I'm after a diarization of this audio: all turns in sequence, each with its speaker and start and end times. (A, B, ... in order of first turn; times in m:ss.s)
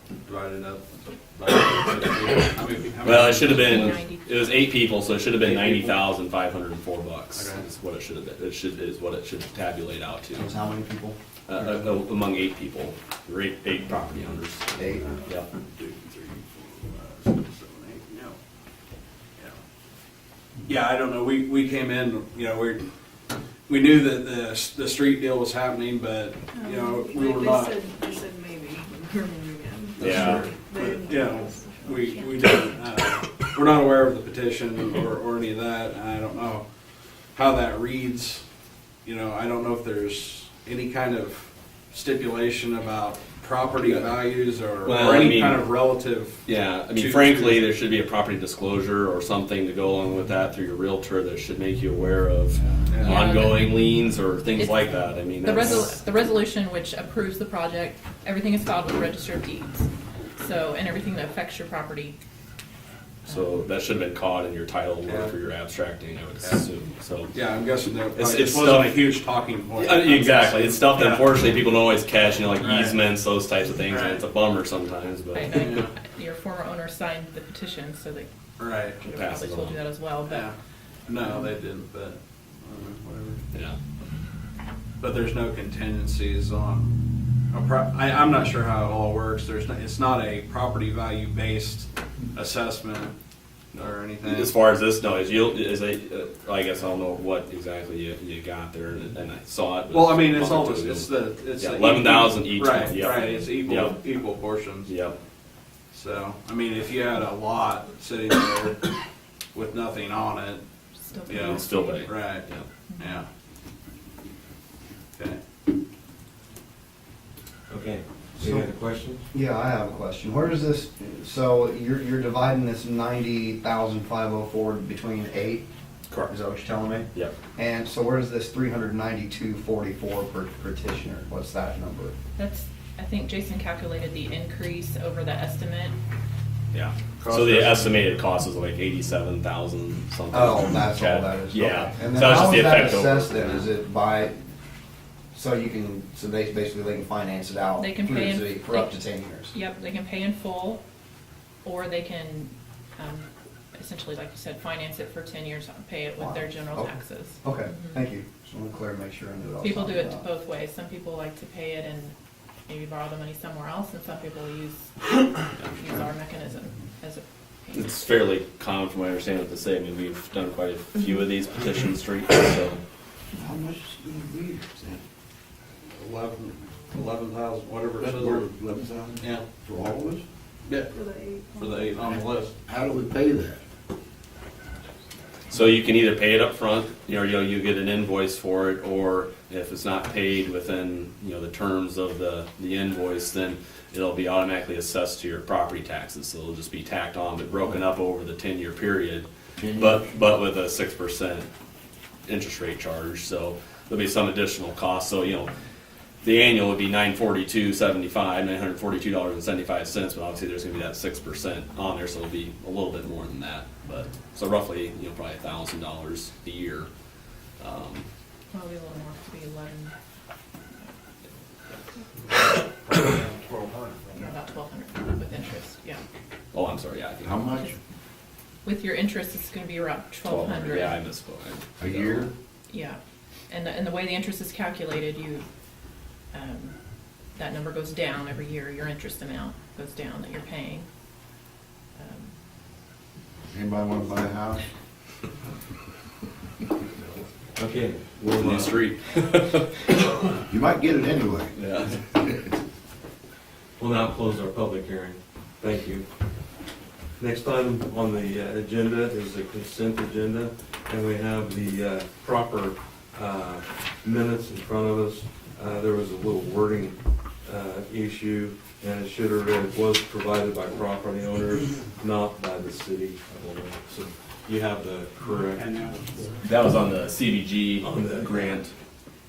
0:00.2-0:03.9 A
0:03.0-0:10.5 B
0:03.3-0:04.6 C
0:05.4-0:06.0 A
0:07.3-0:07.6 A
0:10.4-0:11.2 D
0:11.5-0:14.7 B
0:14.8-0:15.1 D
0:15.5-0:18.4 A
0:20.6-0:22.9 A
0:23.7-0:27.8 A
0:26.5-0:32.8 E
0:30.0-0:36.6 A
0:30.0-0:30.5 B
0:37.3-0:38.4 A
0:39.0-0:47.7 A
0:44.8-0:45.6 B
0:46.4-0:55.9 B
0:52.7-0:53.2 A
0:53.0-1:02.2 C
1:03.2-1:03.6 C
1:03.3-1:07.3 B
1:07.3-1:11.4 A
1:08.1-1:09.0 B
1:09.8-1:15.9 B
1:12.6-1:13.1 A
1:13.8-1:14.2 A
1:15.3-1:18.3 C
1:15.5-1:15.9 A
1:18.6-1:19.0 A
1:18.9-1:20.5 C
1:19.1-1:19.8 B
1:20.3-1:20.5 A
1:21.1-1:23.4 A
1:25.0-1:26.9 A
1:27.5-1:33.1 A
1:33.7-1:34.5 A
1:33.8-1:44.0 B
1:39.9-1:44.9 A
1:42.6-1:43.5 C
1:44.8-1:45.2 B
1:45.9-1:48.9 A
1:49.5-1:50.6 A
1:51.0-1:52.2 C
1:51.3-1:52.4 A
1:51.3-1:52.6 B
1:52.9-1:53.1 C
1:53.0-1:53.3 A
1:55.1-1:55.4 A
1:57.7-1:59.2 F
1:58.4-1:58.7 D
1:59.3-2:05.6 D
2:06.3-2:12.1 D
2:12.4-2:16.0 C
2:16.7-2:23.6 B
2:17.2-2:18.0 A
2:20.3-2:24.4 D
2:25.3-2:29.5 D
2:27.8-2:29.0 C
2:29.5-2:30.8 C
2:31.6-2:38.1 C
2:36.2-2:40.2 D
2:39.6-2:42.1 C
2:42.7-2:48.0 C
2:47.7-2:52.8 B
2:53.4-2:55.0 G
2:55.9-2:58.5 A
2:58.0-3:00.2 G
2:59.2-2:59.5 A
3:00.9-3:02.0 E
3:01.6-3:02.6 A
3:02.1-3:03.6 G
3:05.5-3:21.5 B
3:19.7-3:20.0 G
3:22.2-3:25.5 B
3:26.2-3:36.9 B
3:37.6-3:38.1 B
3:38.5-3:39.9 C
3:41.7-3:42.0 C
3:42.9-3:44.3 G
3:44.1-3:46.0 C
3:46.5-3:47.6 B
3:47.2-3:47.8 G
3:48.6-3:51.0 C
3:50.3-3:52.3 B
3:51.8-3:52.3 G
3:52.7-3:53.0 C
3:53.5-3:55.4 C
3:56.3-3:56.7 C
3:57.3-4:00.9 C
4:02.0-4:02.3 C
4:03.5-4:04.6 G
4:07.6-4:08.8 F
4:08.3-4:10.0 B
4:10.5-4:11.5 G
4:11.5-4:12.0 B
4:12.1-4:12.5 G
4:13.8-4:16.0 F
4:17.2-4:36.0 F
4:35.6-4:36.3 A
4:36.4-4:38.7 B
4:37.8-4:38.6 F